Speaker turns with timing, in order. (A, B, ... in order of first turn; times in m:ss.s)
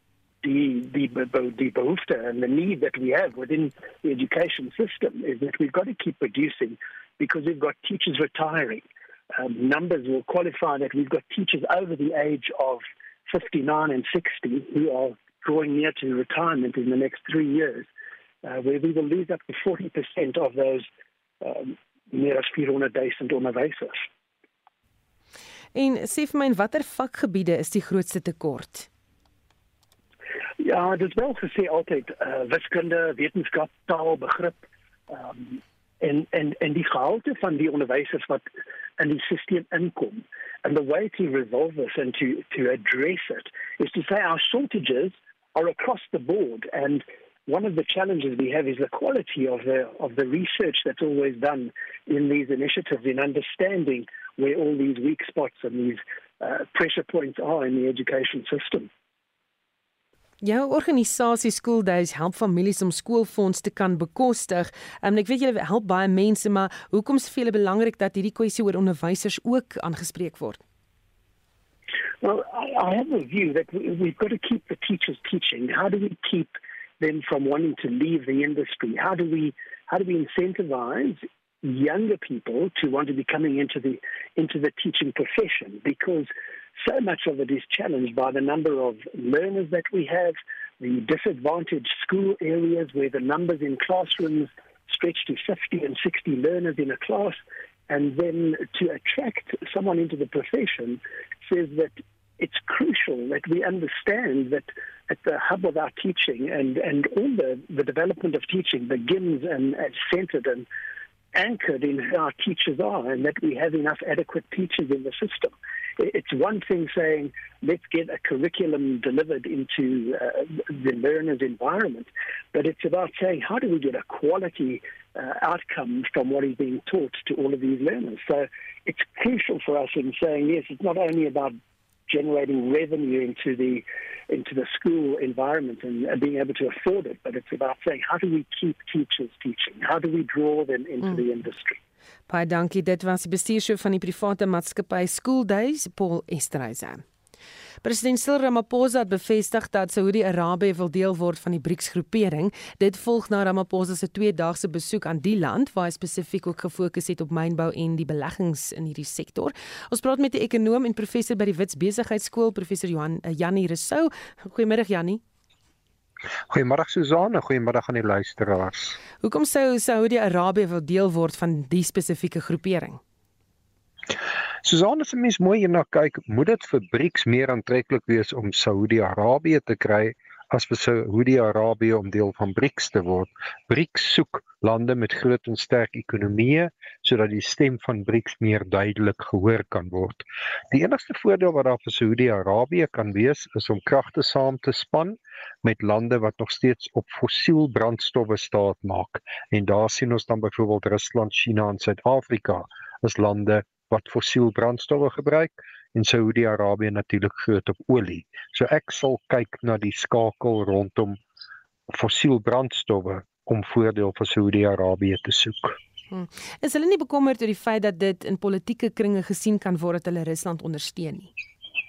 0:00.4-0:17.9 A
0:18.4-0:20.9 A
0:21.4-0:24.0 A
0:25.7-0:28.9 B
0:30.6-0:38.5 A
0:39.0-0:58.9 A
1:00.4-1:10.6 B
1:12.2-1:50.7 A
1:51.4-2:11.6 A
2:12.1-2:21.8 A
2:22.3-2:27.0 B
2:27.8-2:45.2 B
2:46.5-2:49.0 C
2:49.2-2:53.0 B
2:54.6-3:31.2 C
3:31.9-3:35.8 C
3:36.1-3:41.3 B